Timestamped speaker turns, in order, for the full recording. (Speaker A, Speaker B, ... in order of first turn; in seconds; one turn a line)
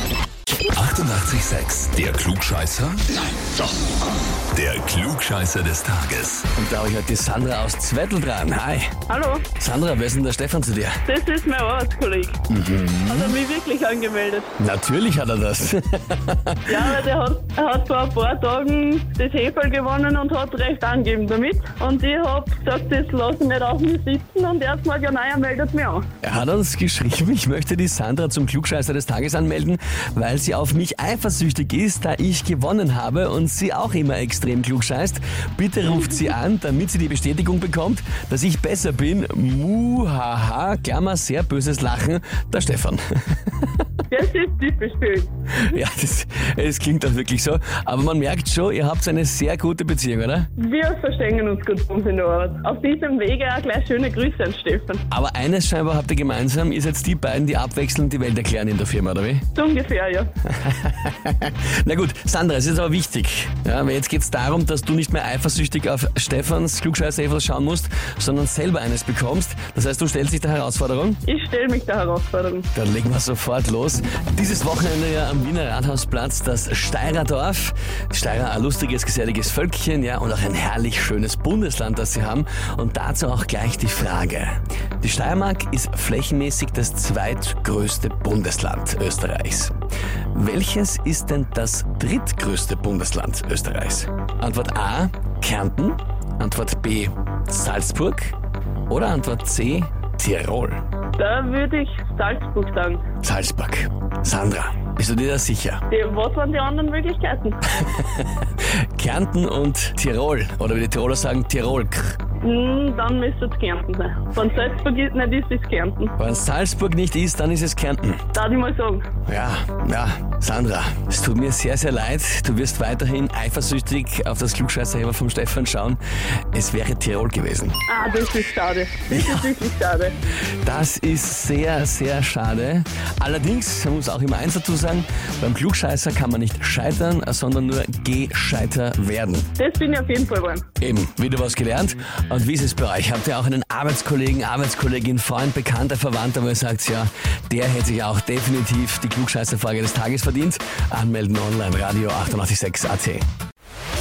Speaker A: 0.7-3.1
Speaker A: 4.5-6.5
Speaker B: 6.5-9.0
Speaker C: 9.1-9.5
Speaker B: 9.6-11.0
Speaker C: 11.0-12.4
Speaker B: 12.5-13.4
Speaker C: 13.1-14.5
Speaker B: 14.6-17.0
Speaker C: 16.7-26.1
Speaker B: 26.2-43.3
Speaker C: 44.1-45.8
Speaker B: 45.6-50.5
Speaker C: 50.6-55.0
Speaker B: 55.1-59.5
Speaker C: 59.5-60.3
Speaker B: 60.5-71.2
Speaker C: 71.2-72.7
Speaker B: 72.7-89.7
Speaker B: 90.3-98.3
Speaker B: 98.9-100.8
Speaker C: 101.2-103.0
Speaker B: 103.2-105.8
Speaker C: 105.9-107.6
Speaker B: 107.8-108.3
Speaker B: 109.0-112.2
Speaker C: 112.4-116.1
Speaker B: 116.2-118.2
Speaker C: 118.3-119.0
Speaker B: 119.2-126.0
Speaker B: 126.5-127.8
Speaker C: 127.9-130.2
Speaker B: 129.1-129.4
Speaker B: 130.6-139.5
Speaker C: 139.6-140.7
Speaker B: 140.8-153.2